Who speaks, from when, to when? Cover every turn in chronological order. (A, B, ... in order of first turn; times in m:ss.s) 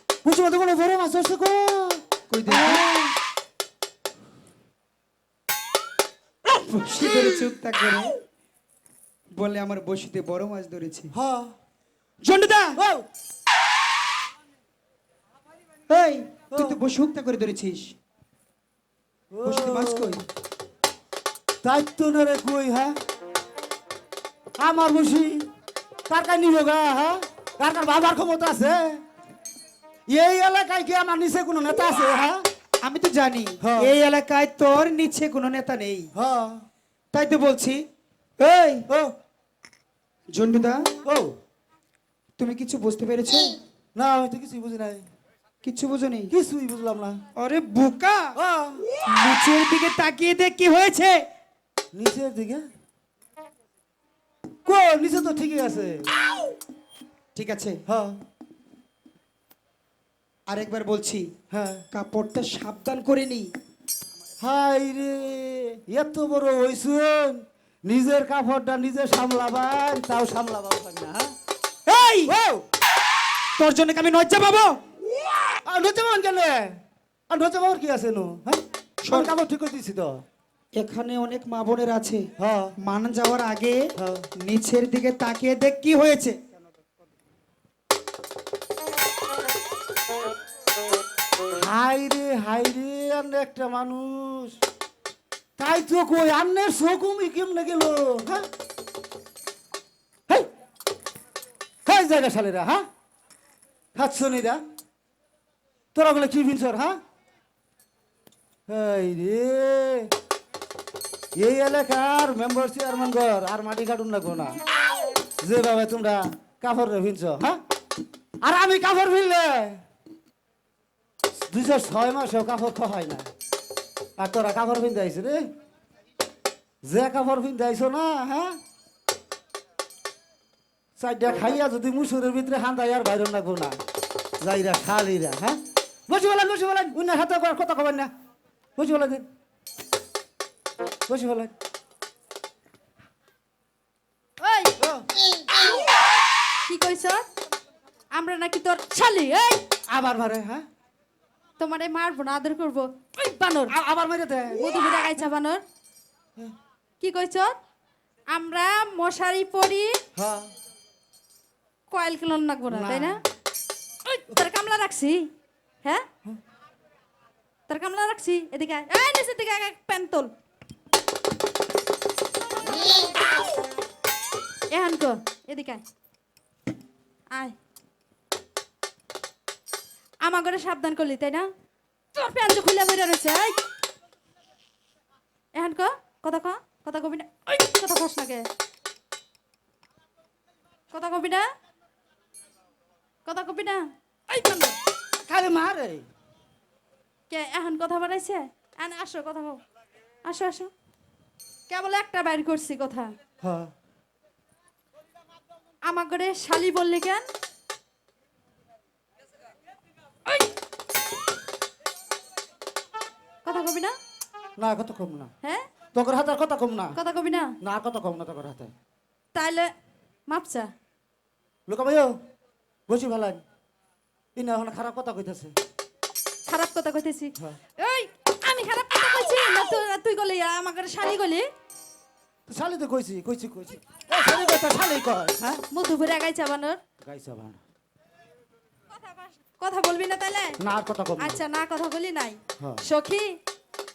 0:00.2-0:03.2 A
0:02.3-0:02.9 B
0:06.5-0:08.2 B
0:09.3-0:11.1 B
0:11.1-0:11.5 A
0:12.2-0:12.8 B
0:12.8-0:13.0 A
0:15.9-0:17.9 B
0:16.5-0:16.8 A
0:19.3-0:20.2 A
0:19.4-0:20.2 B
0:21.6-0:23.0 A
0:24.6-0:25.5 A
0:26.1-0:29.0 A
0:30.1-0:32.5 A
0:32.8-0:36.1 B
0:33.6-0:33.9 A
0:36.1-0:36.6 A
0:37.1-0:37.8 B
0:38.4-0:38.8 B
0:40.3-0:40.9 B
0:41.0-0:41.3 A
0:42.4-0:43.6 B
0:44.0-0:45.1 A
0:45.6-0:46.3 B
0:46.3-0:47.2 A
0:47.4-0:48.4 B
0:48.4-0:48.9 A
0:49.0-0:51.2 B
0:51.9-0:52.6 A
0:54.6-0:56.1 A
0:57.3-0:57.8 B
0:57.9-0:58.2 A
1:00.5-1:01.3 B
1:01.5-1:01.8 A
1:01.9-1:03.5 B
1:04.4-1:11.3 A
1:11.8-1:12.3 B
1:12.2-1:12.6 A
1:13.6-1:14.8 B
1:15.6-1:16.8 A
1:17.3-1:20.2 A
1:19.0-1:19.3 B
1:20.8-1:26.4 B
1:22.4-1:22.7 A
1:24.0-1:24.3 A
1:31.6-1:34.6 A
1:35.6-1:38.5 A
1:41.8-1:42.8 A
1:44.0-1:44.6 A
1:45.9-1:47.0 A
1:48.7-1:50.1 A
1:51.4-1:54.6 A
1:55.4-1:57.6 A
1:58.4-1:59.8 A
2:01.5-2:03.3 A
2:04.2-2:05.5 A
2:06.8-2:08.6 A
2:11.0-2:13.8 A
2:14.4-2:18.1 A
2:18.8-2:19.3 A
2:21.1-2:21.5 A
2:24.4-2:25.0 A
2:26.7-2:27.3 C
2:28.1-2:29.6 C
2:29.9-2:30.6 A
2:31.6-2:33.7 C
2:33.7-2:35.1 A
2:34.5-2:35.6 C
2:37.0-2:37.6 C
2:38.3-2:40.0 C
2:40.2-2:40.5 A
2:41.9-2:43.2 C
2:42.7-2:43.2 A
2:44.1-2:45.2 C
2:47.7-2:50.3 C
2:54.7-2:55.8 C
3:00.2-3:01.5 C
3:02.1-3:03.6 C
3:05.5-3:08.4 C
3:10.9-3:11.5 C
3:13.2-3:13.8 C
3:15.2-3:16.0 A
3:17.3-3:19.6 C
3:20.2-3:20.7 C
3:21.7-3:23.1 C
3:23.4-3:23.7 A
3:25.8-3:27.2 C
3:33.4-3:33.9 C
3:34.6-3:35.3 A
3:35.9-3:37.0 A
3:36.9-3:37.5 C
3:37.6-3:38.7 A
3:39.3-3:39.7 C
3:40.3-3:40.7 C
3:41.7-3:42.2 A
3:42.9-3:43.4 A
3:44.4-3:45.6 A
3:46.5-3:51.5 C
3:52.5-3:55.6 A
3:55.7-3:56.8 C
3:57.0-3:57.6 A
3:58.9-4:00.6 C
4:00.6-4:01.4 A
4:01.2-4:03.4 C